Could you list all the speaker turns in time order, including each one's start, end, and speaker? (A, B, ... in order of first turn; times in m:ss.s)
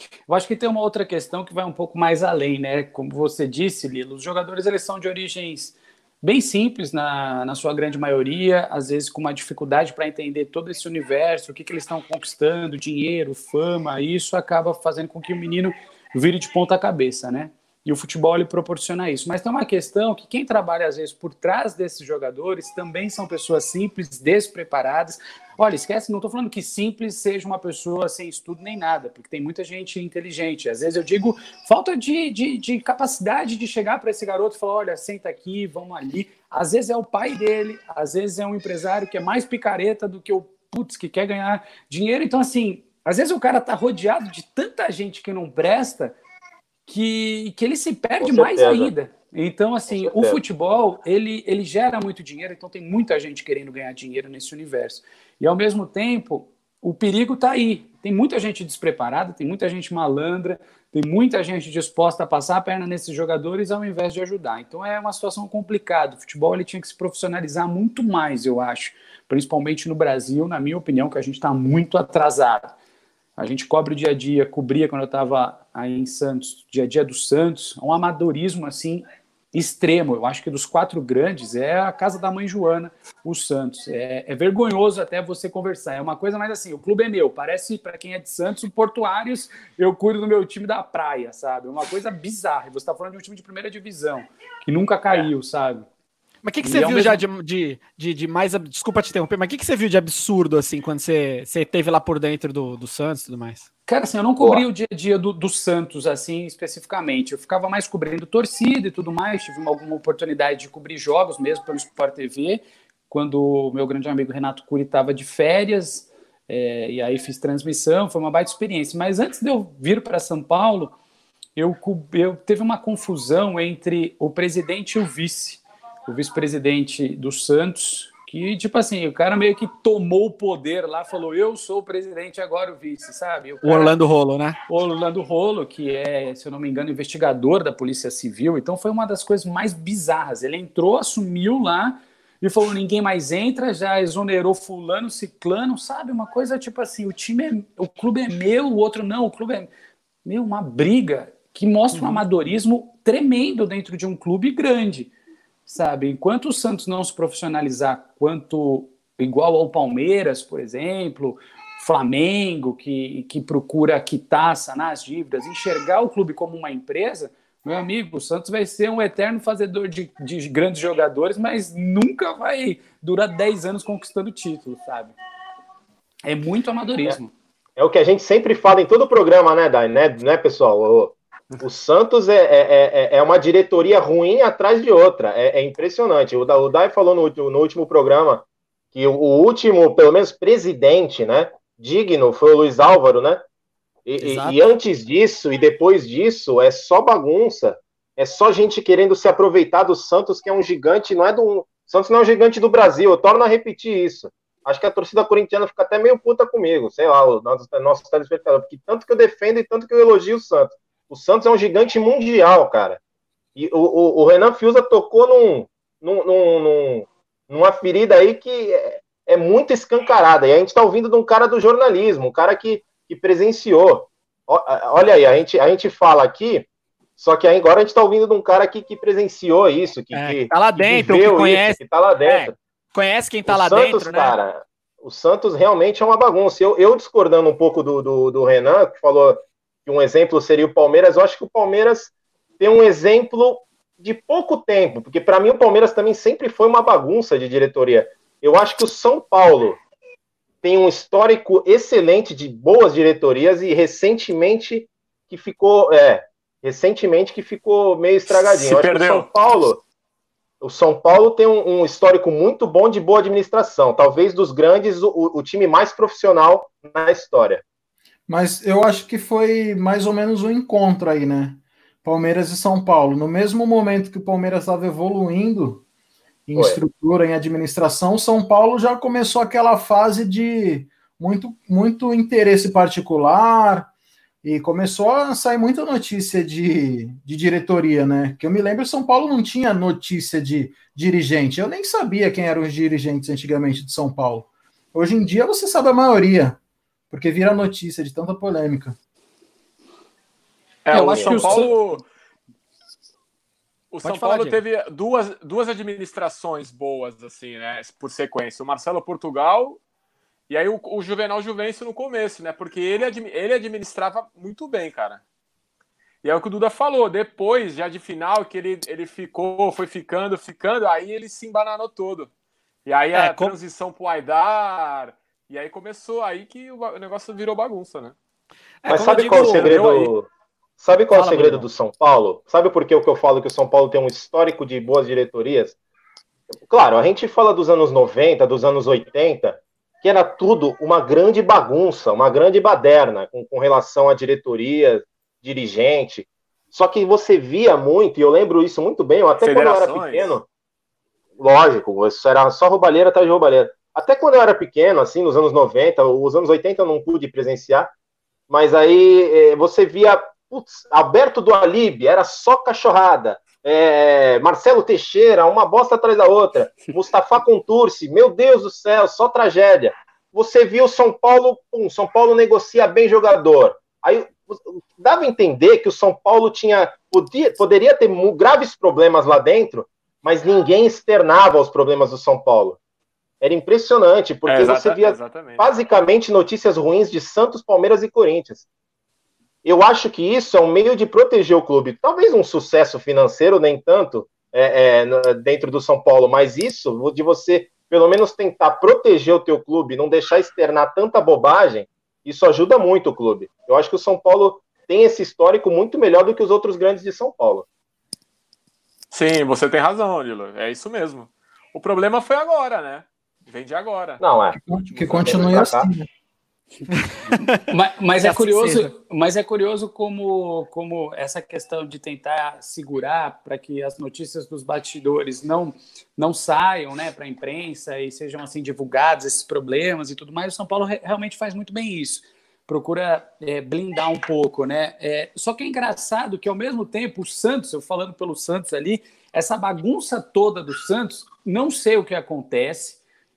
0:00.3-0:46.2 A
0:46.9-1:12.7 A
0:48.2-0:48.9 B
0:49.9-0:50.4 B
1:13.4-1:35.9 A
1:36.4-1:43.6 C
1:36.6-1:37.2 A
1:43.9-2:00.9 A
2:01.6-2:13.9 A
2:13.6-2:14.6 C
2:14.7-2:29.7 A
2:30.2-2:35.1 A
2:31.9-2:32.2 C
2:35.7-2:55.1 A
2:56.2-2:57.3 A
2:57.8-3:13.4 B
3:14.0-3:33.0 B
3:14.2-3:14.6 C
3:33.6-3:46.6 B
3:47.2-3:52.5 B
3:50.1-3:54.4 C
3:53.5-4:09.8 B
4:10.6-4:19.8 B
4:18.3-4:19.3 D
4:20.6-4:27.6 B
4:28.3-4:35.8 E
4:36.5-4:43.9 E
4:36.5-4:36.8 B
4:44.4-4:56.6 E
4:57.1-4:59.0 E
5:00.8-5:02.0 D
5:00.9-5:01.7 B
5:00.9-5:01.7 A
5:03.9-5:09.8 D
5:04.0-5:04.6 C
5:10.5-5:15.2 D
5:16.2-5:22.3 D
5:22.8-5:28.1 D
5:23.1-5:23.5 C
5:28.8-5:29.8 C
5:28.9-5:30.3 B
5:29.3-5:30.1 D
5:30.8-5:35.8 B
5:31.1-5:31.6 A
5:36.7-5:50.4 B
5:49.4-5:50.3 D
5:51.4-5:57.9 B
5:58.5-6:22.8 B
6:23.4-6:28.6 B
6:24.4-6:25.7 D
6:29.6-6:47.6 B
6:49.1-6:54.2 D
6:54.2-6:55.9 B
6:54.6-6:56.1 E
6:56.9-6:57.4 C
6:57.6-7:23.0 A
6:58.2-6:58.9 C